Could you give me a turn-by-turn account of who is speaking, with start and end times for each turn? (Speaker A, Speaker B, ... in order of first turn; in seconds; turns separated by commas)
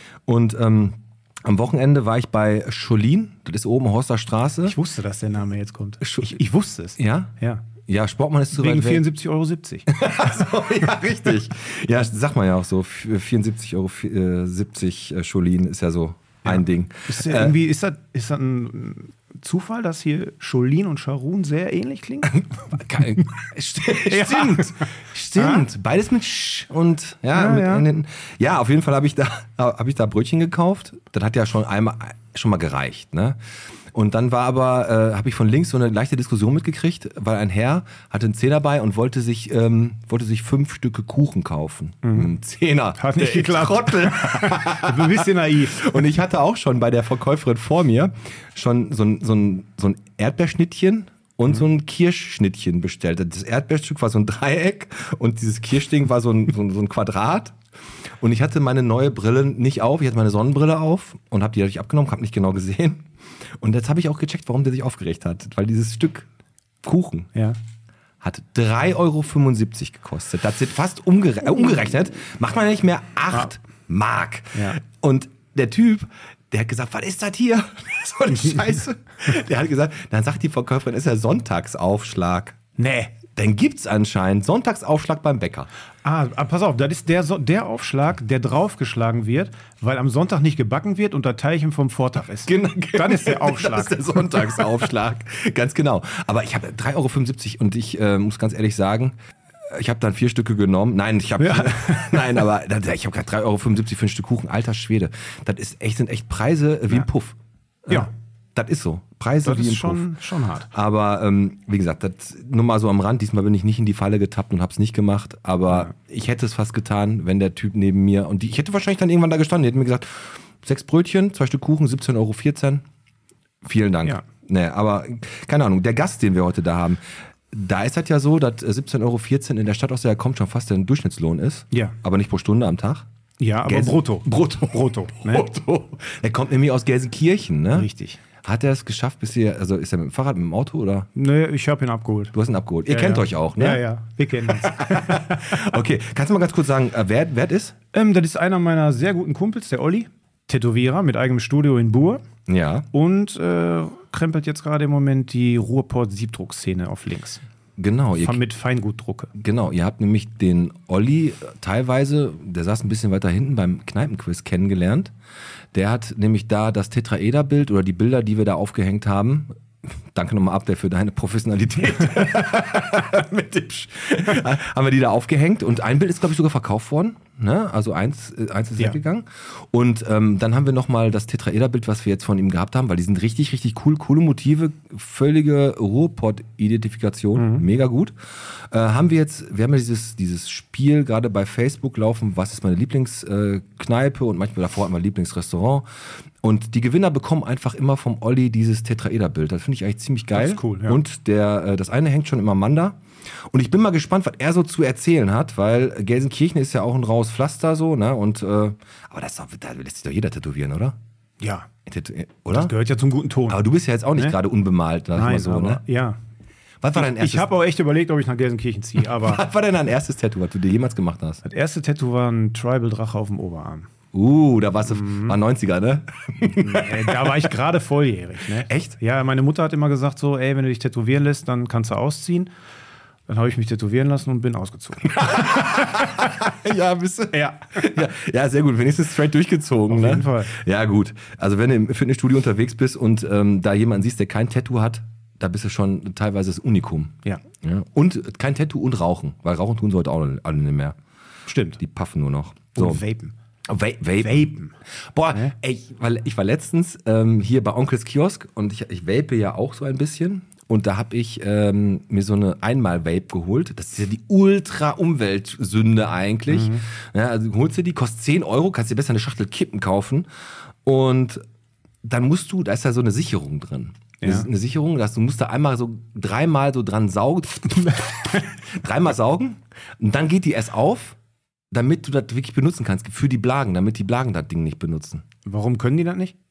Speaker A: 0.3-4.8, Speaker B: 4.6-7.7, Speaker A: 6.0-6.4, Speaker A: 7.0-9.1, Speaker B: 8.5-9.9, Speaker A: 9.9-17.6, Speaker B: 16.4-22.4, Speaker A: 22.2-33.4, Speaker B: 23.9-25.6, Speaker B: 27.3-27.9, Speaker A: 33.9-57.5, Speaker B: 42.0-42.3, Speaker B: 43.0-46.0, Speaker A: 58.2-63.0, Speaker A: 63.6-66.3, Speaker A: 66.8-67.3, Speaker A: 68.2-82.6, Speaker B: 74.5-74.8, Speaker B: 82.8-83.1, Speaker A: 83.3-85.7, Speaker B: 86.0-94.8, Speaker A: 92.4-99.2, Speaker A: 99.7-110.1, Speaker B: 101.4-102.4, Speaker B: 109.4-110.7, Speaker A: 110.7-122.8, Speaker A: 123.6-133.1, Speaker B: 133.4-135.4, Speaker A: 133.6-137.9, Speaker B: 137.7-138.2, Speaker A: 138.4-141.1, Speaker B: 141.1-142.3, Speaker A: 142.3-143.8, Speaker B: 142.9-145.4, Speaker A: 144.4-147.7, Speaker B: 147.9-152.2, Speaker A: 152.5-152.9, Speaker B: 152.9-157.4, Speaker A: 157.8-158.4, Speaker B: 158.2-159.3, Speaker A: 159.3-165.1, Speaker A: 165.7-195.8, Speaker B: 187.3-187.6, Speaker A: 196.4-211.0, Speaker B: 200.3-201.0, Speaker B: 211.4-211.7, Speaker A: 211.9-212.7, Speaker B: 212.5-213.6, Speaker A: 213.5-215.8, Speaker B: 215.1-216.2, Speaker A: 216.8-217.5, Speaker B: 216.9-219.4, Speaker A: 219.0-221.4, Speaker B: 221.4-223.9, Speaker A: 224.1-227.4, Speaker B: 224.9-225.4, Speaker B: 226.4-232.5, Speaker A: 228.7-229.0, Speaker B: 233.3-236.0, Speaker A: 235.1-250.9, Speaker B: 237.3-237.9, Speaker B: 239.9-240.5, Speaker B: 251.5-251.8, Speaker A: 251.8-253.0, Speaker B: 252.7-253.3, Speaker A: 253.7-254.6, Speaker B: 254.2-254.7, Speaker A: 255.1-270.3, Speaker B: 266.5-266.8, Speaker A: 270.8-271.4, Speaker A: 272.0-281.2, Speaker B: 274.2-274.5, Speaker A: 281.7-285.2, Speaker B: 285.4-286.3